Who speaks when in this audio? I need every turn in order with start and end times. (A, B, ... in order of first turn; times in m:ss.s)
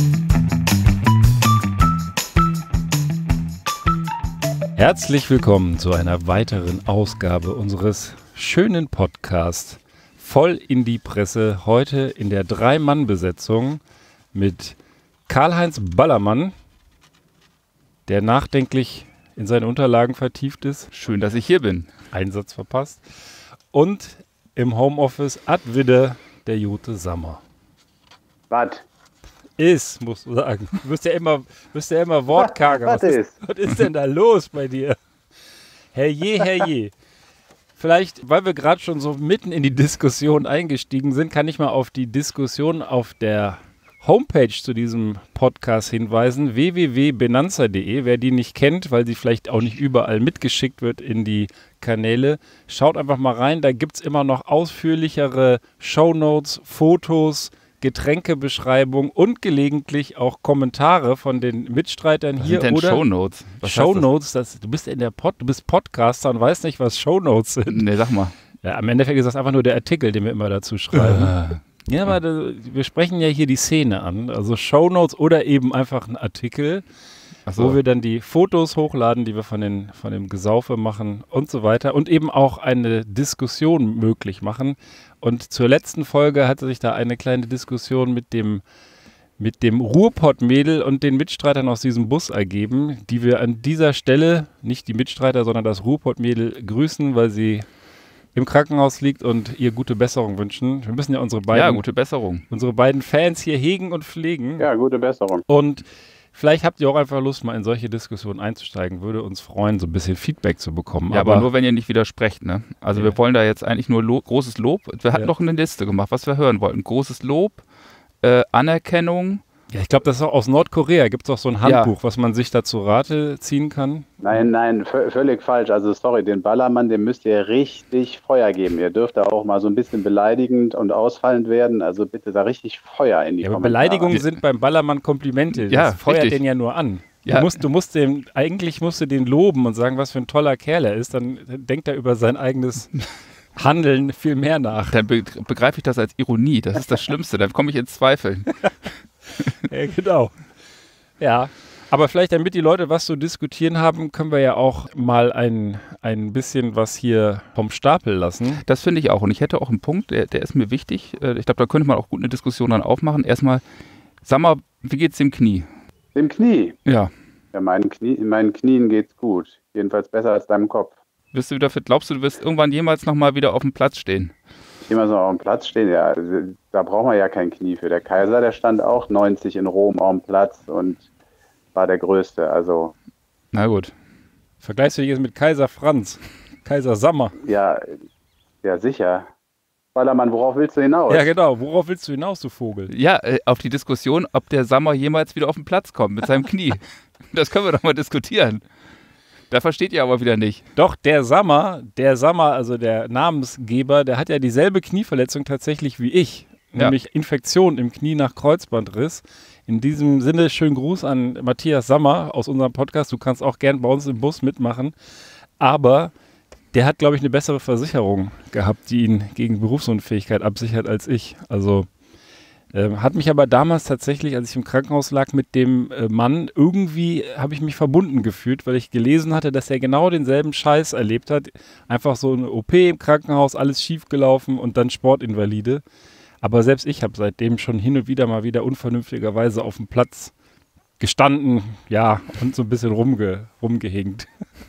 0:04.8-0:13.8 A
0:14.3-0:14.8 A
0:15.3-0:16.5 A
0:18.1-0:20.9 A
0:20.9-0:21.9 B
0:22.1-0:23.0 A
0:23.7-0:27.4 A
0:28.5-0:28.8 C
0:29.6-0:35.0 A
0:32.4-0:33.3 C
0:35.9-0:36.9 A
0:37.8-1:03.0 A
1:02.4-1:04.0 B
1:03.6-1:07.8 A
1:07.7-1:08.3 B
1:08.6-1:16.8 A
1:10.9-1:12.1 B
1:17.4-1:17.8 B
1:17.5-1:28.6 A
1:29.4-1:37.7 A
1:38.3-1:41.8 A
1:41.5-1:42.4 B
1:42.5-1:44.7 A
1:44.6-1:45.4 C
1:45.5-1:51.5 A
1:51.1-1:57.6 B
1:58.2-1:59.4 B
1:59.7-2:04.5 A
2:01.6-2:01.9 B
2:04.2-2:14.2 C
2:13.4-2:22.9 A
2:15.5-2:16.4 B
2:17.2-2:17.6 B
2:23.5-2:25.0 A
2:24.9-2:28.5 B
2:29.6-2:30.3 A
2:31.2-2:38.6 A
2:38.6-2:43.6 B
2:44.2-2:45.7 B
2:46.1-2:46.8 C
2:46.8-2:47.1 B
2:47.5-2:50.9 C
2:51.3-2:54.3 B
2:54.8-3:01.1 C
3:01.7-3:02.9 C
3:03.5-3:03.9 B
3:04.6-3:07.3 A
3:07.4-3:08.0 C
3:08.6-3:09.3 C
3:09.9-3:11.3 C
3:11.1-3:12.9 A
3:12.9-3:18.6 B
3:19.5-3:20.7 B
3:20.8-3:34.9 A
3:35.6-3:36.1 A
3:36.7-3:41.9 A
3:42.7-3:55.8 A
3:56.4-4:00.3 A
4:01.0-4:04.3 A